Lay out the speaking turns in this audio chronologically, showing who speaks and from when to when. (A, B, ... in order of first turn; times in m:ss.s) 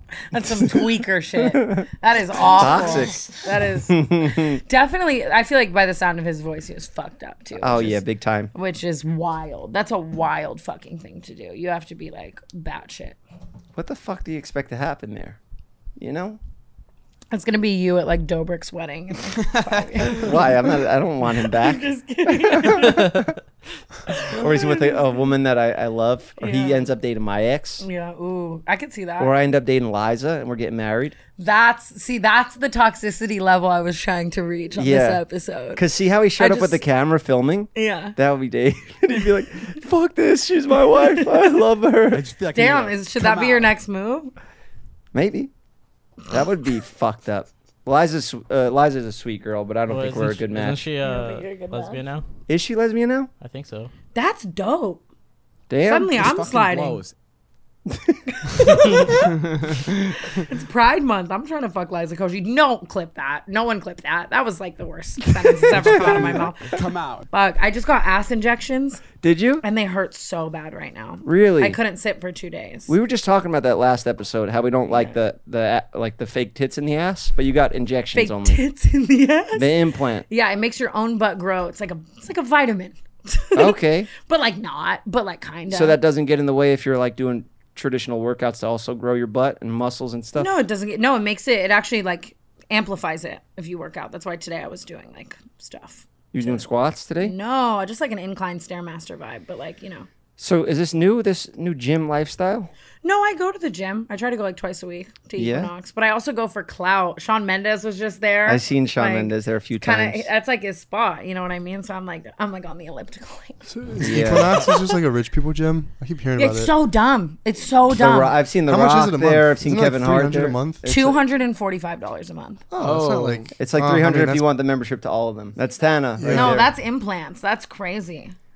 0:00.3-0:08.0 A
0:01.5-0:01.9 B
0:02.6-0:03.3 B
0:03.9-0:04.6 B
0:07.6-0:08.5 B
0:08.5-0:13.2 A
0:13.8-0:15.4 B
0:16.0-0:16.4 B
0:17.3-0:20.7 A
0:20.0-0:23.4 B
0:21.4-0:23.2 A
0:24.1-0:25.2 A
0:24.3-0:27.9 B
0:26.4-0:26.9 A
0:27.8-0:29.3 A
0:29.2-0:31.2 B
0:31.4-0:35.8 A
0:34.8-0:35.2 B
0:35.8-0:42.3 B
0:36.4-0:36.8 A
0:37.8-0:38.2 A
0:41.0-0:41.4 A
0:42.4-0:43.6 C
0:42.5-0:44.3 A
0:45.1-0:45.5 B
0:46.3-0:50.9 B
0:49.9-0:52.3 D
0:51.0-0:52.0 A
0:52.5-0:53.3 B
0:53.4-0:53.9 D
0:54.1-0:55.0 A
0:55.7-0:56.2 B
0:55.8-0:57.0 A
0:56.2-0:57.1 C
0:57.9-0:59.1 B
0:58.4-1:06.8 A
1:06.8-1:07.2 C
1:07.3-1:09.0 A
1:09.2-1:09.6 B
1:09.6-1:12.9 A
1:11.2-1:11.8 B
1:12.9-1:18.6 B
1:14.9-1:15.1 A
1:18.2-1:19.8 A
1:19.5-1:20.3 B
1:20.3-1:26.0 A
1:23.6-1:24.1 B
1:25.7-1:30.5 B
1:30.4-1:36.7 A
1:36.3-1:37.3 B
1:37.2-1:40.1 A
1:40.4-1:42.7 B
1:43.0-1:55.0 A
1:45.4-1:45.7 B
1:48.4-1:50.3 B
1:53.7-1:56.7 E
1:54.0-1:54.6 B
1:56.4-1:58.4 A
1:57.9-2:01.2 B
1:58.7-2:00.8 E
2:00.8-2:02.6 A
2:02.7-2:04.5 E
2:02.8-2:03.5 C
2:03.6-2:06.7 B
2:06.2-2:06.7 E
2:06.2-2:08.4 A